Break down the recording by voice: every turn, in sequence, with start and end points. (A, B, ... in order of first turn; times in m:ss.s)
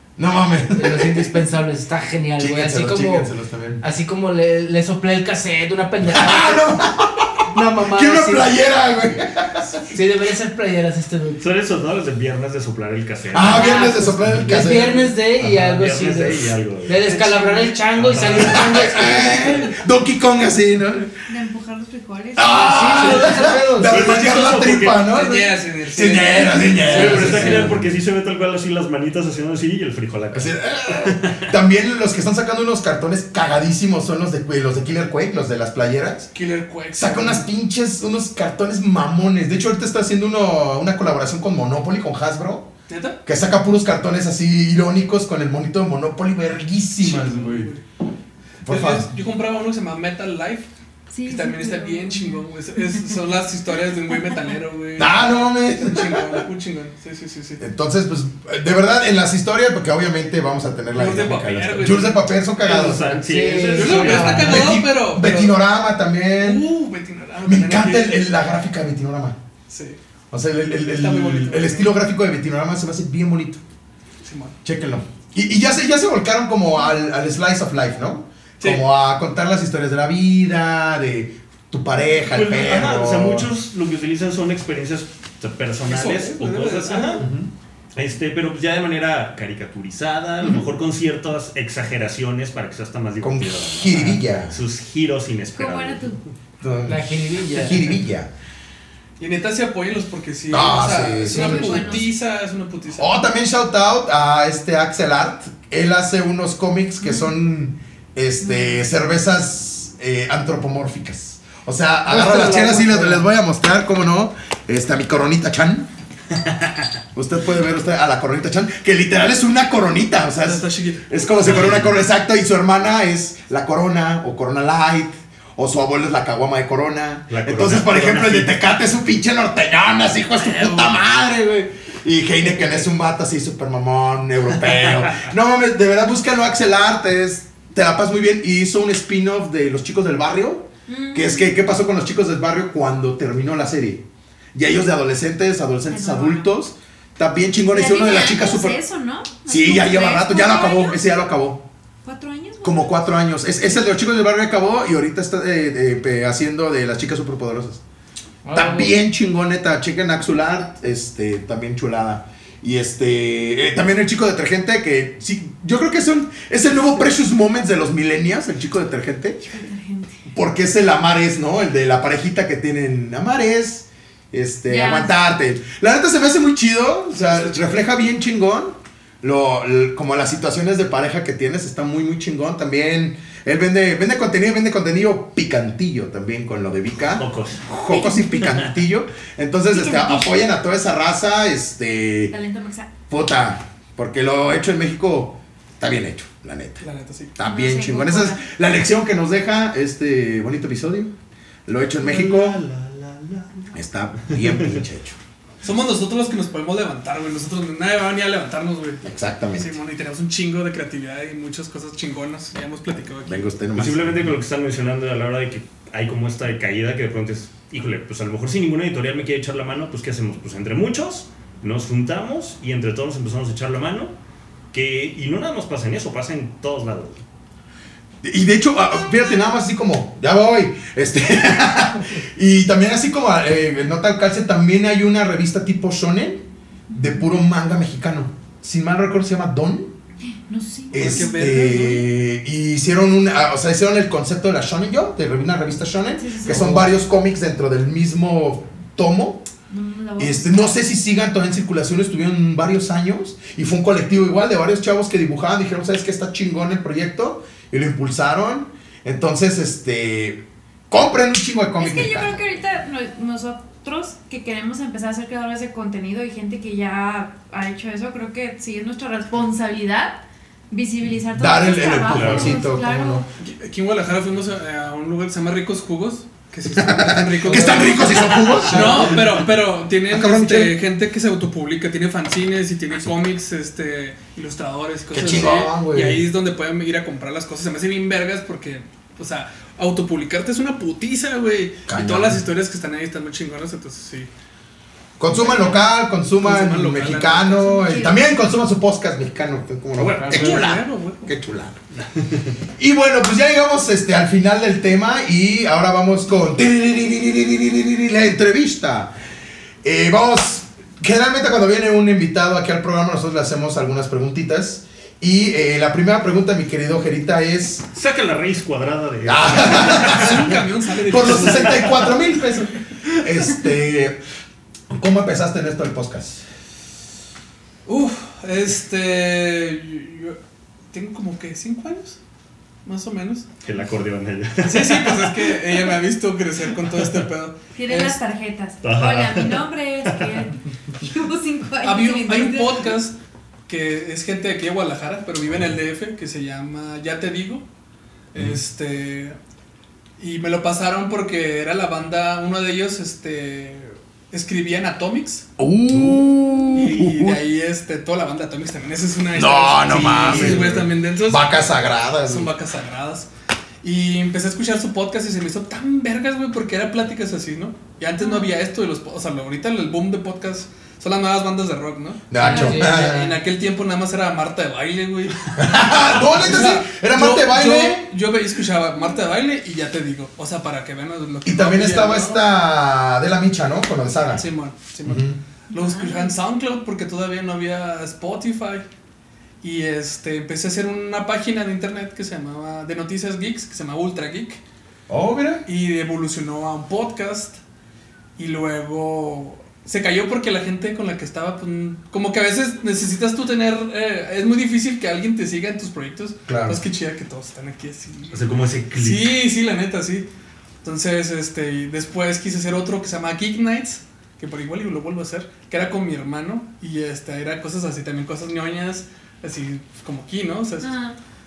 0:00.2-0:01.4 A
0:00.7-0:06.8 B
0:02.4-0:03.8 A
0:06.1-0:09.9 A
0:07.5-0:08.5 B
0:09.9-0:11.4 B
0:11.4-0:13.8 C
0:13.3-0:15.1 A
0:13.4-0:19.7 B
0:15.4-0:17.0 C
0:17.0-0:18.5 D
0:17.9-0:18.8 C
0:18.4-0:21.1 A
0:21.3-0:23.4 E
0:22.4-0:27.9 A
0:22.6-0:24.0 B
0:23.8-0:25.0 C
0:25.0-0:27.6 D
0:26.8-0:31.5 C
0:26.9-0:27.7 B
0:30.3-0:36.3 A
0:36.3-0:37.4 D
0:37.0-0:42.7 A
0:42.9-0:43.2 D
0:43.2-0:47.7 A
0:47.0-0:47.8 D
0:48.6-0:49.1 A
0:48.6-0:50.7 D
0:51.1-0:53.2 E
0:51.2-0:57.6 D
0:55.0-0:56.4 A
0:57.6-1:03.2 A
1:00.9-1:02.2 D
1:02.6-1:04.7 C
1:03.3-1:04.7 B
1:03.7-1:05.6 D
1:04.2-1:06.6 A
1:06.4-1:08.3 D
1:07.4-1:09.4 A
1:09.7-1:10.0 D
1:10.3-1:13.6 A
1:10.9-1:11.9 D
1:14.2-1:14.6 D
1:14.6-1:23.5 A
1:22.3-1:27.4 C
1:25.8-1:27.2 D
1:27.2-1:27.5 A
1:27.9-1:36.2 C
1:33.2-1:34.6 A
1:35.6-1:36.2 E
1:36.6-1:38.3 A
1:36.8-1:37.9 B
1:39.2-1:43.1 D
1:40.5-1:42.0 A
1:41.2-1:41.7 B
1:41.3-1:42.1 E
1:43.0-1:55.9 A
1:47.0-1:47.3 E
1:48.4-1:48.8 E
1:52.1-1:53.2 B
1:52.1-1:52.7 D
1:57.1-2:24.0 A
2:00.4-2:01.2 D
2:01.4-2:02.0 C
2:07.3-2:08.6 C
2:10.4-2:10.9 D
2:20.9-2:21.5 E
2:24.5-2:28.8 A
2:25.9-2:26.5 E
2:27.7-2:31.0 E
2:29.4-2:31.6 A
2:32.0-2:33.0 E
2:32.6-2:37.8 A
2:38.4-2:39.0 B
2:38.5-2:49.4 A
2:49.4-2:50.1 E
2:50.3-3:12.3 A
2:54.7-2:55.1 E
3:07.1-3:07.7 C
3:07.9-3:08.3 E
3:08.4-3:08.7 C
3:09.7-3:10.3 E
3:12.3-3:12.9 E
3:13.1-3:16.8 A
3:16.8-3:17.4 D
3:17.4-3:21.1 A
3:17.4-3:18.4 E
3:21.7-3:22.6 A
3:22.0-3:23.7 C
3:23.7-3:25.2 A
3:24.3-3:24.7 C
3:25.6-3:33.4 D
3:29.0-3:29.8 A
3:33.2-3:34.3 A
3:33.8-3:44.1 C
3:44.7-3:47.2 C
3:48.2-3:59.9 A
3:56.9-3:57.2 E
4:00.5-4:01.3 E
4:00.9-4:09.4 A
4:00.9-4:02.1 D
4:06.2-4:06.9 E
4:09.7-4:10.8 E
4:10.2-4:22.4 A
4:21.8-4:30.2 E
4:30.7-4:33.3 E
4:31.3-4:33.2 A
4:32.0-4:32.6 C
4:33.4-4:54.3 D
4:36.7-4:40.8 A
4:45.1-4:46.2 A
4:51.9-4:52.4 A
4:55.2-5:01.8 A
4:55.3-4:55.8 D
4:56.4-4:57.8 D
4:57.6-4:58.2 E
5:00.0-5:00.6 C
5:00.2-5:01.3 D
5:02.8-5:09.1 A
5:09.8-5:17.9 A
5:17.9-5:20.5 C
5:19.2-5:20.5 A
5:19.7-5:22.1 D
5:21.0-5:24.2 A
5:21.1-5:22.2 C
5:24.9-5:26.4 A
5:27.8-5:30.4 D
5:30.9-5:32.2 D
5:32.8-5:33.5 D
5:33.6-5:35.8 C
5:34.6-5:38.2 D
5:36.9-5:37.2 C
5:37.7-5:42.9 E
5:38.8-5:40.4 C
5:41.8-5:43.2 D
5:43.7-5:47.6 D
5:48.3-5:49.4 D
5:50.2-5:55.4 D
5:55.6-5:57.4 A
5:55.9-5:56.2 C
5:56.7-6:01.4 D
5:59.3-6:02.5 A
6:00.2-6:00.8 C
6:02.2-6:03.3 D
6:03.8-6:22.4 D
6:08.2-6:08.5 E
6:12.3-6:13.3 A
6:12.4-6:13.3 B
6:12.4-6:12.7 E
6:15.6-6:18.1 A
6:21.4-6:24.4 A
6:24.3-6:28.8 D
6:25.0-6:25.4 A
6:25.7-6:26.4 E
6:29.6-6:34.6 D
6:35.1-6:35.6 A
6:35.6-6:37.6 D
6:38.4-6:48.4 D
6:46.5-6:46.8 A
6:48.3-6:49.4 C
6:48.9-6:50.3 D
6:50.8-7:00.9 D
7:00.8-7:01.2 E